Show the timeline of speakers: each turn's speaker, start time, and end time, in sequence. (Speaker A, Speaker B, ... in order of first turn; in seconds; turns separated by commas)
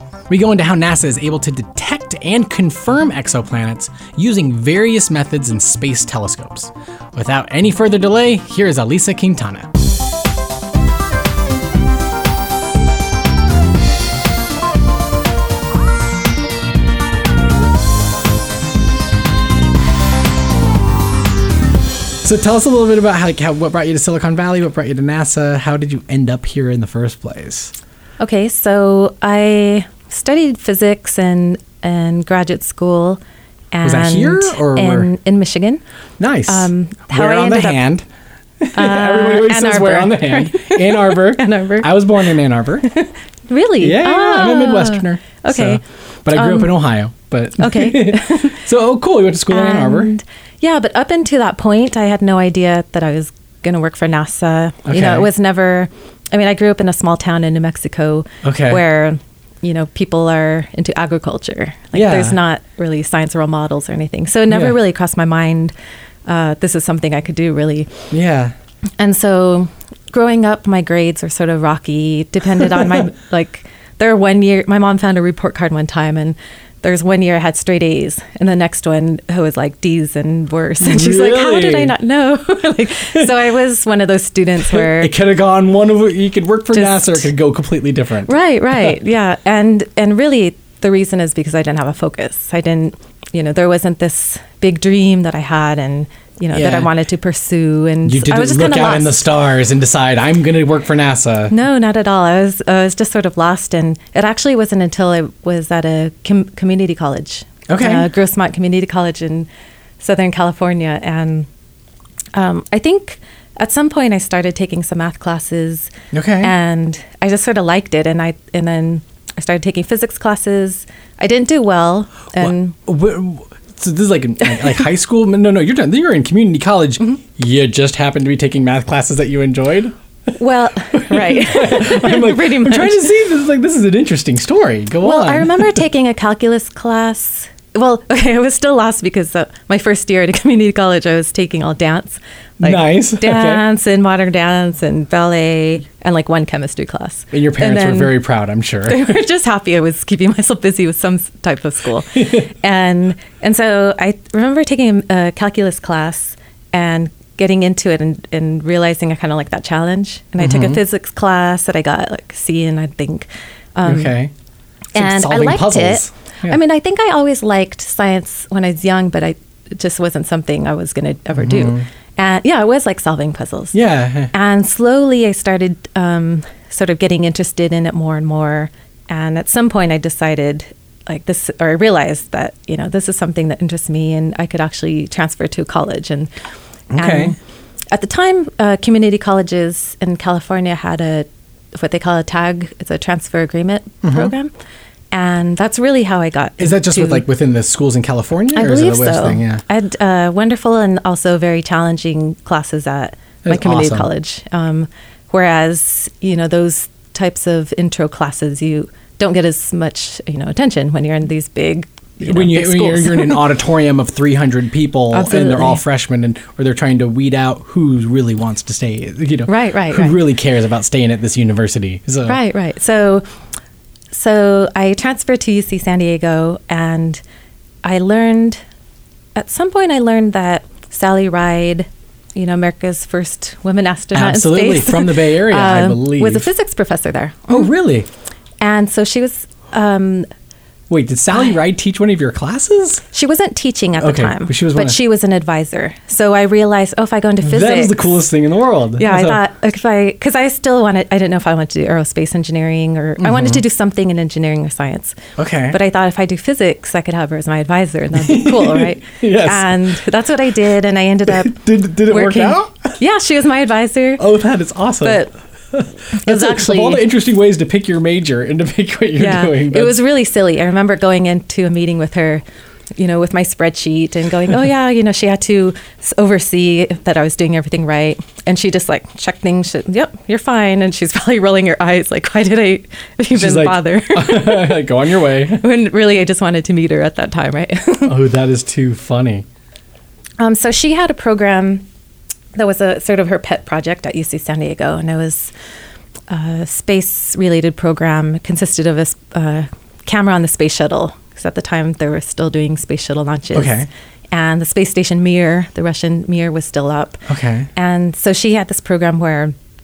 Speaker A: 0.3-9.7, Speaker A: 22.2-27.7, Speaker B: 28.2-33.2, Speaker B: 33.7-35.8, Speaker A: 33.8-35.1, Speaker A: 36.2-38.0, Speaker B: 36.5-37.8, Speaker A: 38.6-42.9, Speaker B: 38.7-42.0, Speaker B: 42.8-45.8, Speaker A: 43.8-50.1, Speaker B: 46.3-46.8, Speaker B: 47.6-48.6, Speaker B: 49.5-65.7, Speaker A: 54.9-55.3, Speaker A: 58.4-58.8, Speaker A: 61.9-62.4, Speaker A: 64.5-64.8, Speaker B: 66.2-67.9, Speaker A: 68.1-68.5, Speaker B: 69.0-85.1, Speaker A: 80.8-81.9, Speaker A: 84.6-88.3, Speaker B: 86.7-87.3, Speaker B: 88.2-99.2, Speaker A: 96.5-96.9, Speaker A: 98.0-101.5, Speaker B: 101.5-109.5, Speaker A: 107.7-108.1, Speaker B: 110.0-111.5, Speaker B: 112.3-122.8, Speaker A: 116.1-116.5, Speaker A: 122.4-129.9, Speaker B: 130.4-133.1, Speaker A: 130.9-135.8, Speaker B: 135.0-148.2, Speaker A: 142.6-143.6, Speaker A: 147.3-149.1, Speaker B: 148.8-164.1, Speaker A: 152.2-152.5, Speaker A: 160.4-160.8, Speaker A: 163.8-164.3, Speaker A: 164.9-166.6, Speaker B: 164.9-173.8, Speaker A: 171.3-171.8, Speaker A: 173.7-174.3, Speaker B: 174.3-186.3, Speaker A: 186.9-187.3, Speaker B: 186.9-187.3, Speaker B: 187.9-194.5, Speaker A: 194.0-194.3, Speaker B: 195.1-197.2, Speaker A: 196.6-199.6, Speaker B: 198.5-213.5, Speaker A: 203.4-204.1, Speaker A: 212.2-222.4, Speaker B: 215.1-215.8, Speaker B: 219.5-220.2, Speaker B: 222.2-223.2, Speaker B: 224.1-227.2, Speaker B: 227.8-228.6, Speaker B: 229.3-237.7, Speaker A: 234.1-236.5, Speaker A: 237.5-238.1, Speaker B: 238.6-240.3, Speaker A: 240.9-243.0, Speaker B: 243.1-248.2, Speaker A: 244.0-245.0, Speaker A: 247.4-249.4, Speaker B: 249.0-255.2, Speaker A: 253.2-253.6, Speaker A: 255.3-255.8, Speaker B: 255.7-264.2, Speaker A: 258.1-259.9, Speaker A: 261.3-263.0, Speaker A: 264.2-270.0, Speaker B: 265.0-265.3, Speaker B: 266.1-267.1, Speaker B: 269.2-272.4, Speaker B: 273.0-284.9, Speaker A: 283.3-285.6, Speaker B: 285.4-288.1, Speaker A: 288.1-289.4, Speaker B: 290.4-291.9, Speaker B: 292.6-295.5, Speaker B: 296.3-307.2, Speaker A: 303.5-303.9, Speaker A: 307.3-307.7, Speaker B: 307.8-309.6